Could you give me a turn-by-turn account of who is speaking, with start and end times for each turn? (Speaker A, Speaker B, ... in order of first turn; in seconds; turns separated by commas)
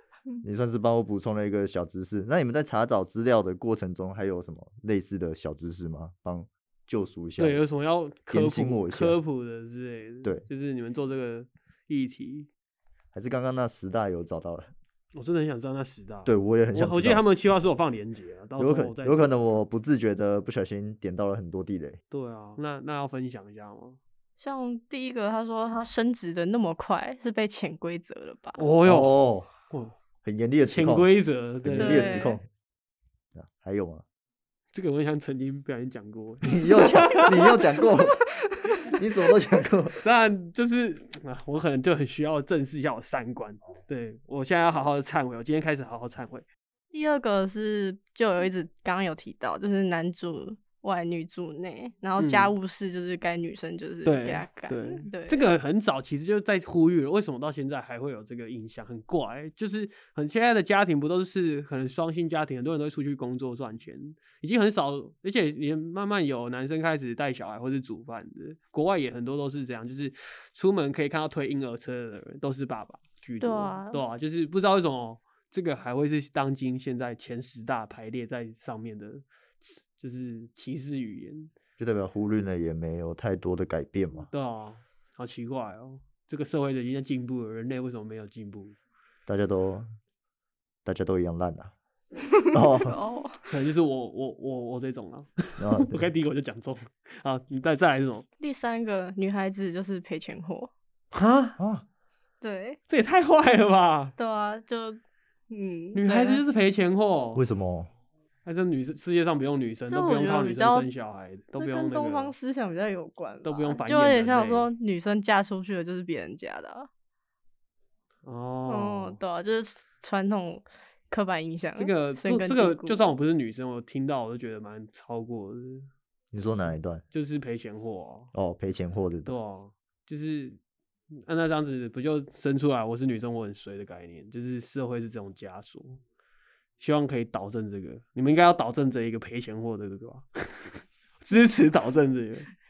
Speaker A: 0.4-7.6, Speaker B: 7.4-12.5, Speaker A: 8.3-9.2, Speaker A: 13.1-14.7, Speaker B: 15.1-19.6, Speaker A: 16.3-17.2, Speaker A: 18.6-22.0, Speaker B: 22.1-24.0, Speaker C: 24.4-28.6, Speaker B: 28.6-29.2, Speaker A: 28.8-29.5, Speaker B: 29.7-30.0, Speaker A: 30.2-31.1, Speaker B: 30.7-32.3, Speaker A: 31.6-32.5, Speaker C: 31.8-32.4, Speaker A: 33.4-34.0, Speaker B: 34.7-37.5, Speaker A: 36.4-38.2, Speaker A: 38.9-40.0, Speaker B: 40.0-46.5, Speaker C: 46.9-55.5, Speaker B: 52.2-52.5, Speaker B: 54.0-81.5, Speaker C: 73.4-74.0, Speaker A: 81.8-84.3, Speaker B: 84.3-88.8, Speaker A: 89.3-89.9, Speaker A: 90.8-91.7, Speaker A: 92.5-93.0, Speaker C: 92.8-93.5, Speaker B: 93.5-98.3, Speaker A: 95.6-96.1, Speaker C: 98.4-100.7, Speaker B: 101.1-101.6, Speaker A: 101.6-101.8, Speaker C: 102.4-102.8, Speaker B: 102.9-104.2, Speaker C: 104.2-106.4, Speaker B: 106.0-107.4, Speaker A: 107.3-107.9, Speaker B: 108.5-112.3, Speaker C: 109.9-110.9, Speaker C: 111.6-116.9, Speaker B: 113.4-114.7, Speaker B: 118.2-119.2, Speaker C: 118.7-123.0, Speaker B: 121.8-125.9, Speaker A: 126.3-127.0, Speaker B: 126.4-128.3, Speaker A: 128.3-129.3, Speaker B: 129.3-130.6, Speaker B: 131.1-136.0, Speaker B: 136.8-142.5